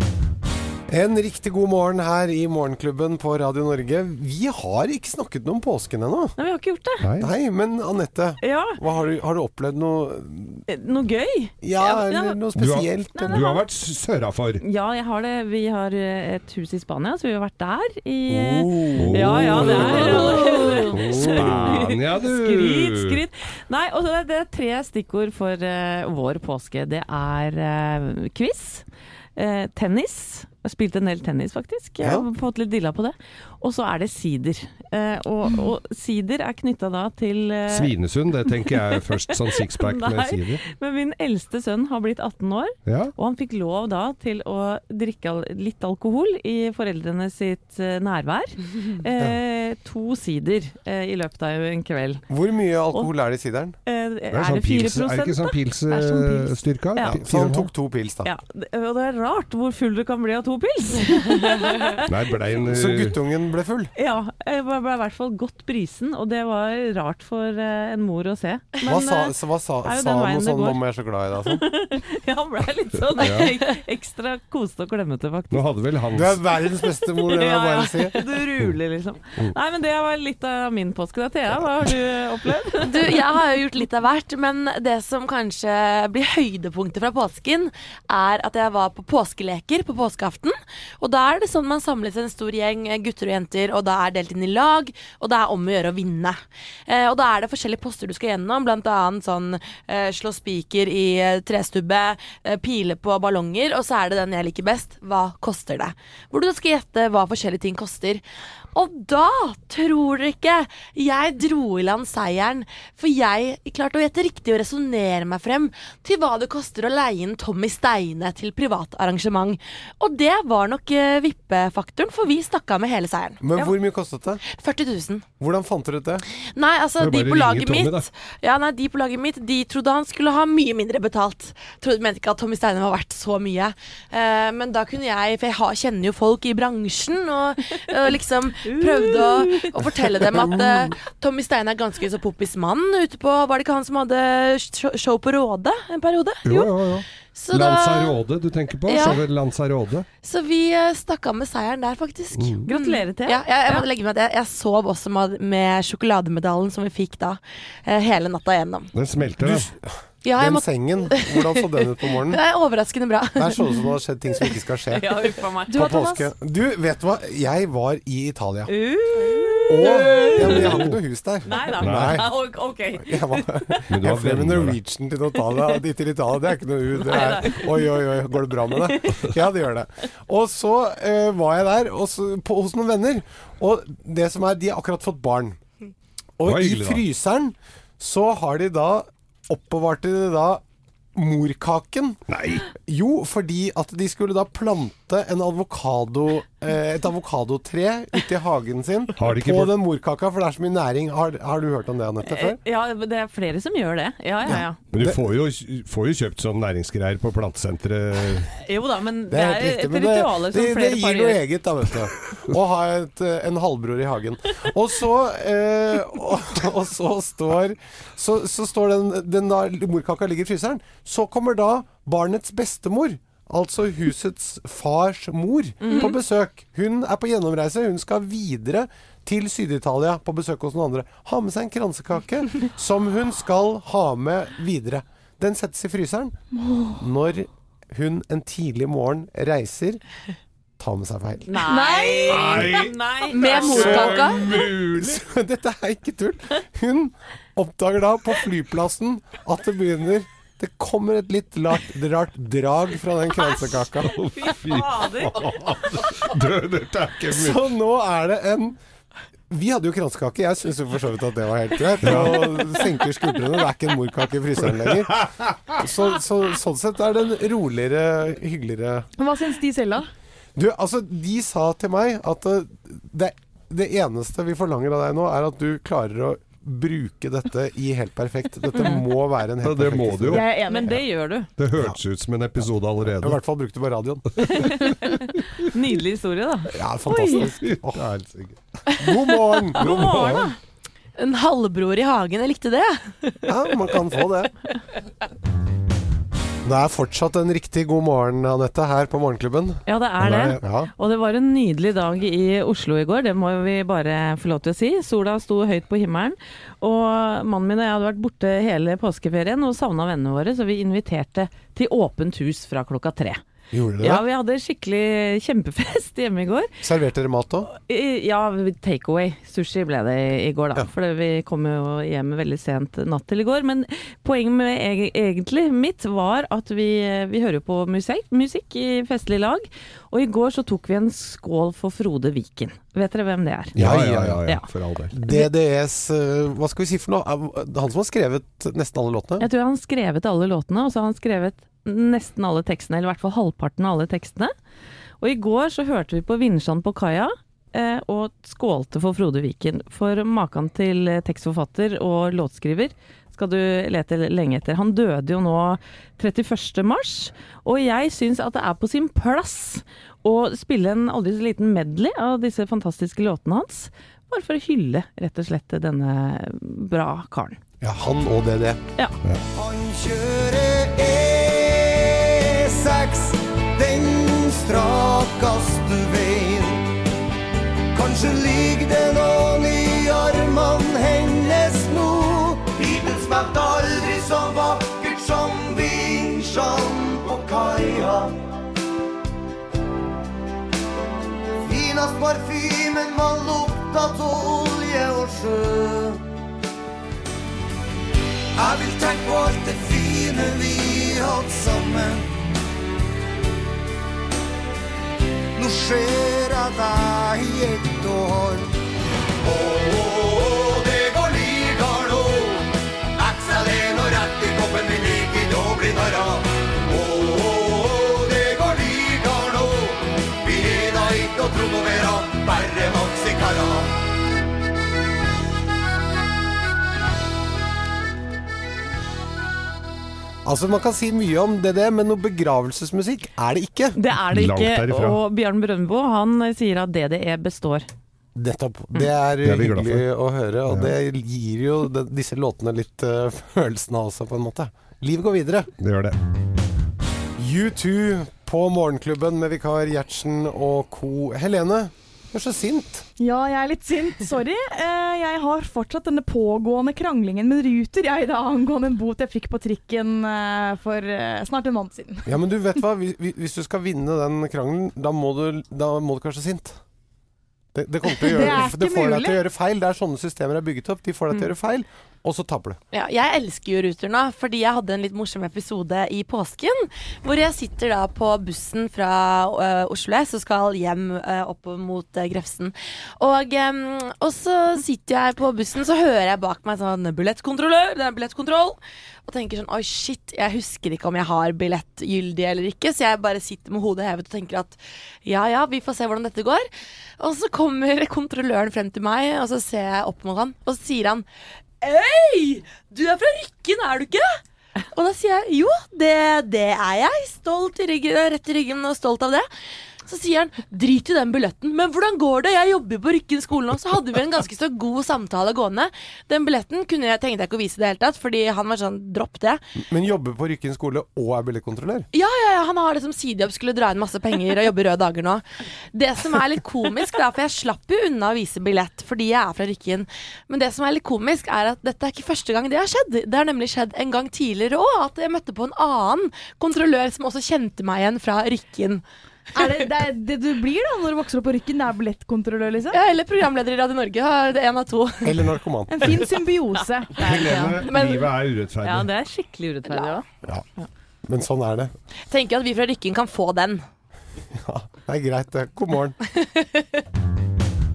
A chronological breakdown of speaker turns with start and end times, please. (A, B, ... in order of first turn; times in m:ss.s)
0:00.9-0:06.3 A
0:06.4-0:07.1 B
0:07.0-0:07.3 C
0:07.2-0:10.6 A
0:08.4-0:08.8 B
0:10.7-0:12.4 B
0:11.6-0:13.4 A
0:12.6-0:14.6 C
0:13.1-0:13.6 B
0:14.6-0:28.8 B
0:18.3-0:21.8 A
0:18.9-0:23.2 C
0:29.4-0:37.9 B
0:37.7-0:40.6 C
0:38.7-0:52.2 B
0:42.8-0:43.1 C
0:52.3-0:53.8 A
0:53.8-0:57.2 B
0:54.3-0:57.7 C
0:57.0-0:58.3 A
0:58.2-1:02.0 B
1:02.1-1:03.2 C
1:02.6-1:03.9 A
1:04.0-1:10.8 B
1:08.8-1:11.6 A
1:11.4-1:15.6 B
1:13.2-1:13.5 C
1:15.5-1:16.4 C
1:16.1-1:18.2 A
1:17.2-1:23.2 B
1:22.8-1:48.2 D
1:48.7-2:03.7 D
2:03.4-2:04.4 A
2:04.4-2:05.2 D
2:05.4-2:06.2 A
2:06.5-2:26.7 D
2:07.0-2:08.1 C
2:18.6-2:19.8 B
2:20.4-2:20.9 C
2:26.4-2:30.0 C
2:27.3-2:28.2 D
2:28.9-2:29.2 D
2:30.2-2:38.9 D
2:32.3-2:32.6 C
2:32.7-2:33.8 B
2:38.9-2:39.7 C
2:39.3-2:42.4 A
2:40.2-2:44.5 D
2:43.4-2:48.7 A
2:44.9-2:45.9 B
2:45.7-2:46.3 E
2:48.7-2:50.8 B
2:49.7-2:52.3 A
2:50.4-2:51.0 C
2:51.4-2:53.8 B
2:51.8-2:52.3 C
2:53.0-3:05.6 A
2:53.9-2:54.8 C
2:57.0-2:59.4 B
3:06.4-3:10.6 A
3:06.4-3:07.0 C
3:11.1-3:22.6 A
3:12.3-3:12.7 C
3:19.2-3:19.7 C
3:22.2-3:24.8 B
3:24.4-3:25.2 A
3:24.9-3:28.5 C
3:28.6-3:31.4 B
3:29.3-4:00.0 A
3:45.8-3:46.1 B
4:00.8-4:01.5 A
4:01.5-4:04.2 B
4:01.7-4:02.5 E
4:01.7-4:02.8 D
4:02.3-4:05.2 C
4:03.3-4:04.4 D
4:03.7-4:14.1 A
4:14.0-4:17.6 C
4:14.3-4:15.6 B
4:17.3-4:18.8 A
4:19.5-4:29.1 A
4:22.0-4:22.6 C
4:25.0-4:25.8 C
4:29.2-4:30.1 E
4:30.6-4:41.0 A
4:39.6-4:40.5 C
4:40.3-4:40.9 E
4:40.6-4:41.5 B
4:41.6-4:43.4 C
4:41.7-4:42.0 A
4:43.0-4:44.7 A
4:44.4-4:47.4 B
4:46.7-4:48.1 A
4:47.6-4:48.6 C
4:49.0-4:50.0 A
4:49.7-4:50.5 C
4:49.8-4:50.5 B
4:51.2-4:53.4 D
4:53.4-4:54.5 A
4:56.6-4:59.8 A
4:59.8-5:13.4 B
5:00.2-5:00.5 C
5:00.5-5:00.9 A
5:13.7-5:14.2 A
5:14.0-5:16.7 B
5:16.8-5:17.7 A
5:17.7-5:33.8 B
5:33.7-5:35.1 C
5:33.8-5:34.4 A
5:35.1-5:39.4 A
5:39.4-5:44.5 B
5:45.2-6:07.6 B
6:07.8-6:08.8 A
6:09.5-6:17.0 F
6:17.9-6:28.4 F
6:31.6-6:36.2 F
6:38.6-6:42.4 F
6:45.6-6:48.7 F
6:49.4-7:03.9 F
7:10.4-7:14.0 A
7:13.9-7:17.9 B
7:14.2-7:15.2 C
7:18.4-7:25.7 A
7:19.4-7:20.0 C
7:25.8-7:26.2 C
7:27.4-7:33.0 A
7:33.2-7:42.4 E
7:42.2-7:46.8 A
7:47.7-7:52.8 A
7:48.2-7:49.4 E
7:52.9-8:16.6 D
8:17.2-8:21.2 D
8:21.8-8:24.4 D
8:24.9-8:29.5 D
8:30.0-8:39.6 D
8:39.8-8:42.1 A
8:42.1-8:59.0 D
8:59.5-9:03.0 E
9:02.9-9:05.5 D
9:05.2-9:06.2 A
9:05.9-9:07.8 E
9:07.2-9:09.1 C
9:07.6-9:08.3 D
9:08.8-9:10.2 B
9:09.9-9:10.2 D
9:11.2-9:11.9 A
9:12.3-9:13.8 D
9:14.6-9:16.2 A